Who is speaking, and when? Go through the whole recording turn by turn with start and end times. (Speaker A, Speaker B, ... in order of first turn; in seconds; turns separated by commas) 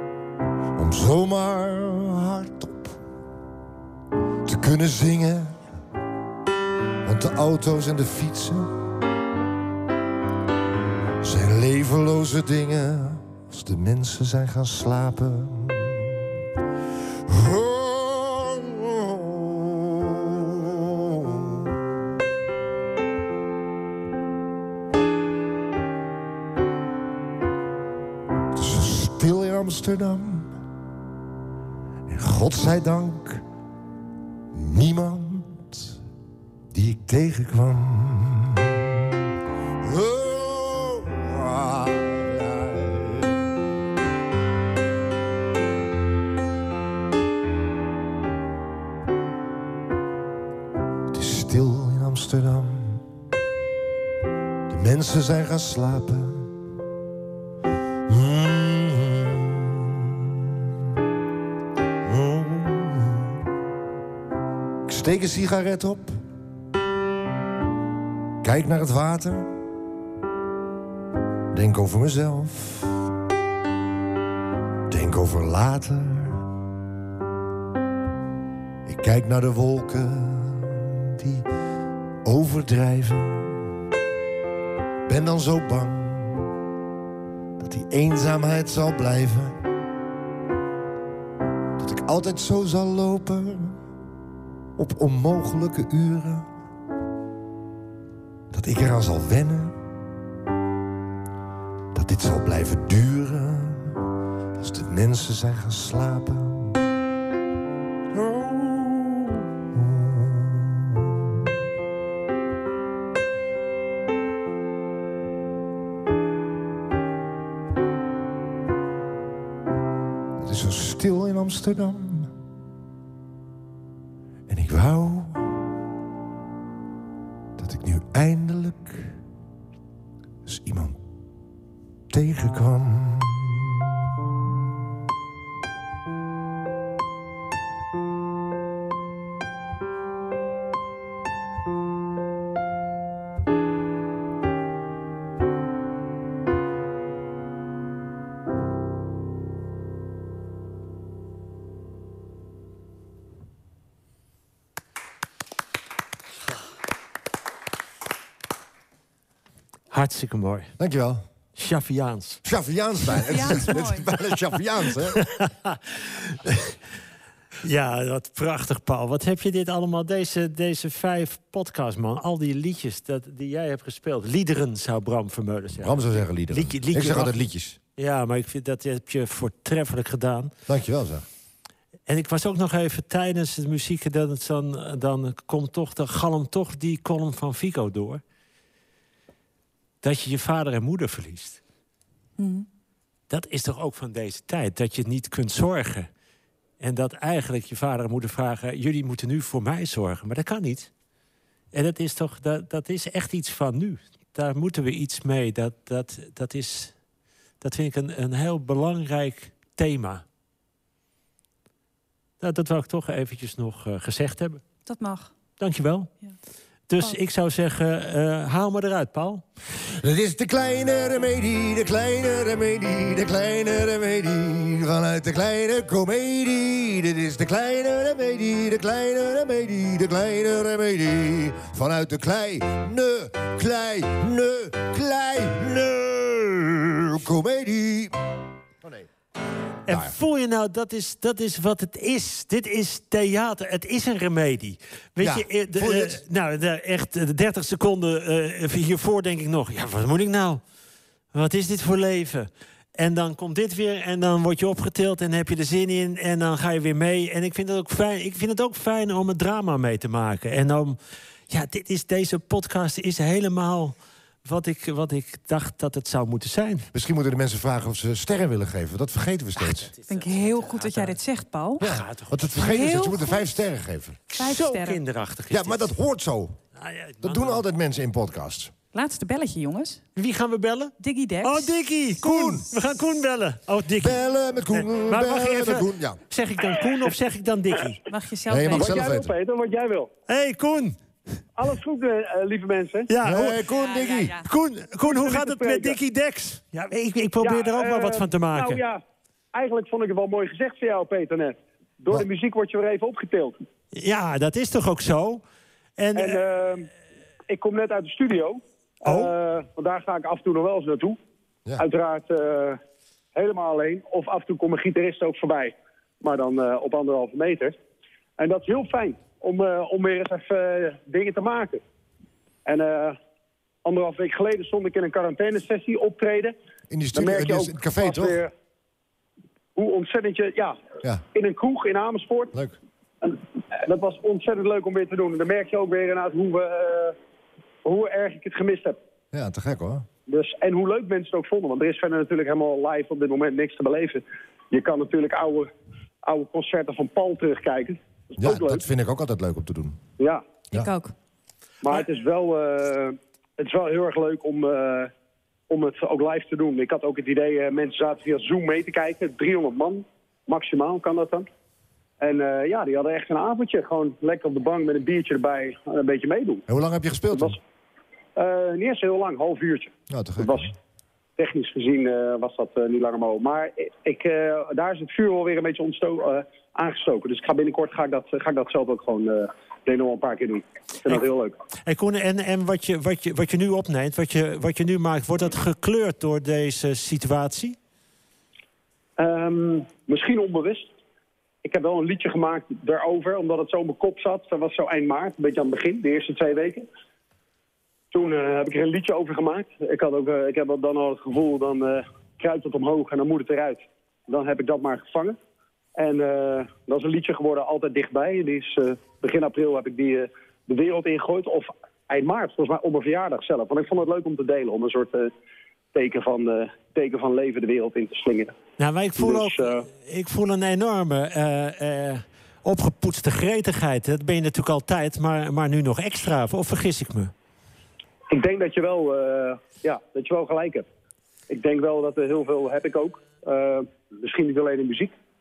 Speaker A: 0.7-3.0, Speaker A: 4.4-5.6, Speaker A: 7.0-8.7, Speaker A: 11.2-16.3, Speaker A: 17.3-21.8, Speaker A: 28.5-30.5, Speaker A: 32.1-33.4, Speaker A: 34.5-36.0, Speaker A: 36.7-39.2, Speaker A: 39.8-43.4, Speaker A: 51.1-53.0, Speaker A: 54.7-56.5, Speaker A: 58.1-60.9, Speaker A: 62.0-63.4, Speaker A: 64.8-66.2, Speaker A: 68.4-69.5, Speaker A: 71.5-73.1, Speaker A: 74.9-76.5, Speaker A: 78.8-81.5, Speaker A: 82.2-83.7, Speaker A: 85.0-86.5, Speaker A: 87.6-89.6, Speaker A: 91.8-93.8, Speaker A: 94.8-96.5, Speaker A: 98.5-99.8, Speaker A: 101.9-104.0, Speaker A: 104.5-106.8, Speaker A: 108.1-111.5, Speaker A: 120.4-122.3, Speaker A: 124.5-125.6, Speaker A: 127.6-129.2, Speaker A: 130.4-131.0, Speaker A: 132.1-134.6, Speaker B: 159.9-160.7, Speaker A: 160.8-161.2, Speaker B: 161.6-162.4, Speaker A: 162.4-165.2, Speaker C: 163.3-164.1, Speaker B: 165.1-166.7, Speaker B: 167.6-177.4, Speaker A: 175.8-177.8, Speaker B: 178.0-180.5, Speaker A: 180.7-181.2, Speaker B: 182.1-188.2, Speaker B: 190.0-191.6, Speaker C: 192.4-192.7, Speaker B: 193.3-196.1, Speaker B: 196.8-200.9, Speaker B: 201.7-206.9, Speaker B: 207.6-210.2, Speaker B: 212.4-214.6, Speaker C: 214.8-215.3, Speaker B: 215.6-216.1, Speaker B: 216.9-219.4, Speaker A: 219.9-238.1, Speaker A: 238.8-239.1, Speaker B: 239.8-250.6, Speaker A: 239.9-240.2, Speaker A: 245.2-246.2, Speaker B: 251.3-261.0, Speaker B: 261.5-263.9, Speaker B: 264.4-266.9, Speaker A: 266.9-269.9, Speaker B: 269.6-271.2, Speaker C: 270.1-271.8, Speaker B: 271.8-272.4, Speaker A: 271.8-274.2, Speaker C: 272.5-273.4, Speaker C: 274.3-275.0, Speaker B: 274.3-275.9, Speaker A: 275.5-276.6, Speaker B: 276.8-277.6, Speaker A: 277.2-278.7, Speaker C: 278.9-280.0, Speaker B: 280.1-284.2, Speaker C: 281.0-281.7, Speaker A: 282.2-282.6, Speaker A: 284.0-286.2, Speaker B: 284.7-288.0, Speaker C: 288.1-289.0, Speaker A: 288.5-289.3, Speaker D: 288.7-290.1, Speaker B: 290.3-290.9, Speaker D: 291.6-293.1, Speaker B: 293.1-293.6, Speaker A: 293.2-294.4, Speaker C: 293.7-294.4, Speaker B: 294.4-298.8, Speaker D: 295.0-296.0, Speaker D: 297.4-299.0, Speaker D: 299.5-303.6, Speaker B: 303.9-305.4, Speaker B: 306.0-306.4, Speaker D: 306.1-306.9, Speaker D: 307.5-311.2, Speaker B: 309.0-309.3, Speaker D: 311.8-312.8, Speaker D: 313.3-317.8, Speaker D: 318.4-321.8, Speaker D: 322.6-323.2, Speaker D: 323.8-326.5, Speaker A: 326.9-328.4, Speaker D: 327.1-328.5, Speaker D: 329.7-332.5, Speaker A: 332.5-332.8, Speaker D: 333.2-337.1, Speaker D: 337.8-339.0, Speaker A: 339.3-340.1, Speaker D: 340.3-345.7, Speaker D: 346.2-348.8, Speaker A: 348.4-350.0, Speaker D: 350.2-350.4, Speaker C: 350.7-351.1, Speaker D: 351.8-355.1, Speaker D: 355.7-361.5, Speaker D: 362.2-366.6, Speaker A: 366.7-367.6, Speaker D: 367.3-367.6, Speaker D: 368.4-370.7, Speaker A: 370.1-370.7, Speaker D: 371.4-381.6, Speaker B: 381.8-387.8, Speaker D: 389.2-390.9, Speaker D: 391.6-396.9, Speaker D: 398.1-405.4, Speaker D: 405.9-415.3, Speaker D: 415.9-418.6, Speaker B: 418.8-427.3, Speaker D: 419.2-419.9, Speaker D: 428.3-430.9, Speaker D: 431.5-435.1